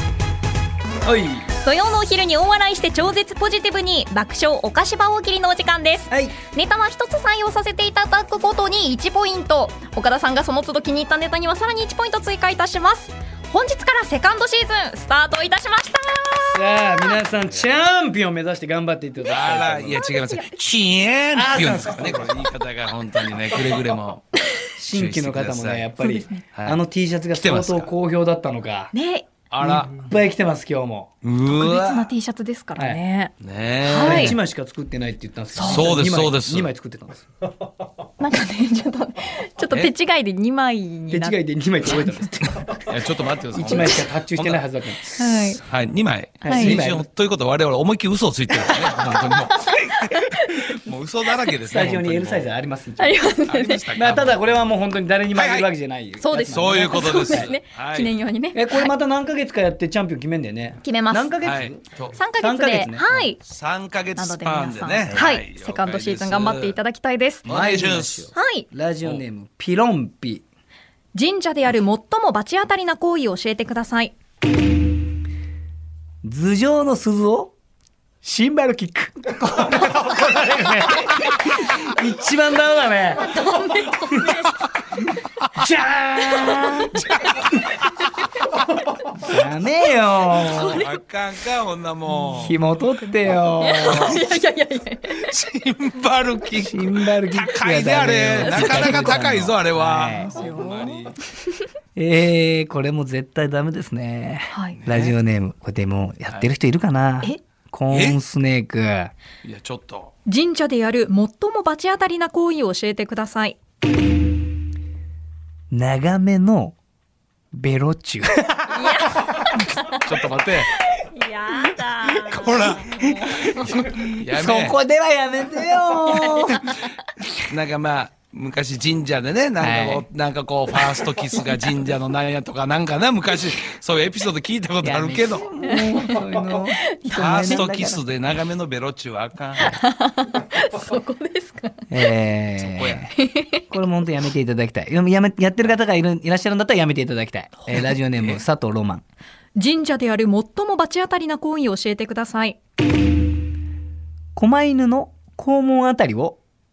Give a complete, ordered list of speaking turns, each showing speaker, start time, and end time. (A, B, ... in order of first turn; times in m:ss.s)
0:01.0-0:01.4 A
0:01.6-0:17.2 B
0:06.1-0:06.4 A
0:16.5-0:20.0 A
0:17.3-0:17.7 C
0:19.3-0:24.2 C
0:19.9-0:20.5 B
0:21.3-0:22.3 A
0:24.8-0:28.9 A
0:24.9-0:25.9 C
0:26.0-0:26.4 B
0:27.3-0:27.9 C
0:28.9-0:29.3 B
0:29.5-0:30.1 C
0:29.6-0:31.1 A
0:31.2-0:32.1 C
0:31.5-0:33.3 B
0:32.8-0:33.0 A
0:33.4-0:34.4 C
0:33.8-0:34.4 B
0:34.0-0:37.3 A
0:35.5-0:35.9 B
0:35.6-0:36.7 C
0:38.2-0:42.3 B
0:41.1-0:42.9 A
0:42.9-0:52.6 C
0:43.6-0:45.0 A
0:43.6-0:44.1 B
0:45.2-0:45.6 B
0:46.4-0:47.1 A
0:46.5-0:46.8 B
0:48.5-0:50.9 B
0:48.9-0:49.3 A
0:51.7-0:53.2 A
0:53.0-0:54.0 B
0:53.5-0:54.7 C
0:53.9-0:57.5 A
0:55.3-0:55.7 C
0:56.2-0:58.9 B
0:56.4-0:58.1 C
0:58.5-1:01.8 A
1:00.8-1:01.4 B
1:01.4-1:02.2 C
1:02.1-1:03.4 B
1:02.4-1:03.1 A
1:03.1-1:06.8 C
1:04.2-1:07.4 B
1:07.4-1:08.3 C
1:07.4-1:10.4 A
1:08.4-1:08.7 B
1:11.1-1:14.2 B
1:16.2-1:17.5 A
1:18.2-1:23.4 A
1:23.2-1:24.6 B
1:24.1-1:24.4 A
1:25.5-1:26.9 A
1:26.5-1:27.5 B
1:26.9-1:27.6 C
1:29.2-1:30.8 A
1:30.4-1:31.0 B
1:30.6-1:32.6 C
1:32.1-1:32.4 B
1:32.3-1:34.2 A
1:33.6-1:35.3 B
1:33.8-1:34.2 C
1:35.1-1:41.2 C
1:36.6-1:40.3 A
1:38.4-1:39.4 B
1:40.1-1:41.6 B
1:42.0-1:49.1 A
1:44.5-1:44.8 B
1:44.8-1:45.1 C
1:47.9-1:48.2 C
1:49.4-1:50.1 C
1:50.2-1:53.6 B
1:55.7-1:56.8 A
1:57.5-1:59.3 A
1:58.7-2:00.0 B
2:00.0-2:00.7 C
2:00.7-2:03.9 B
2:02.1-2:02.9 C
2:03.2-2:06.8 A
2:03.6-2:04.8 C
2:06.1-2:06.9 B
2:07.5-2:15.5 C
2:09.6-2:10.0 A
2:14.8-2:18.0 A
2:15.7-2:16.2 B
2:17.0-2:17.6 B
2:17.1-2:19.8 C
2:19.6-2:22.0 B
2:21.9-2:23.2 A
2:22.6-2:23.1 C
2:23.2-2:23.6 B
2:23.7-2:29.0 A
2:28.2-2:28.4 C
2:29.6-2:32.6 B
2:34.4-2:36.4 A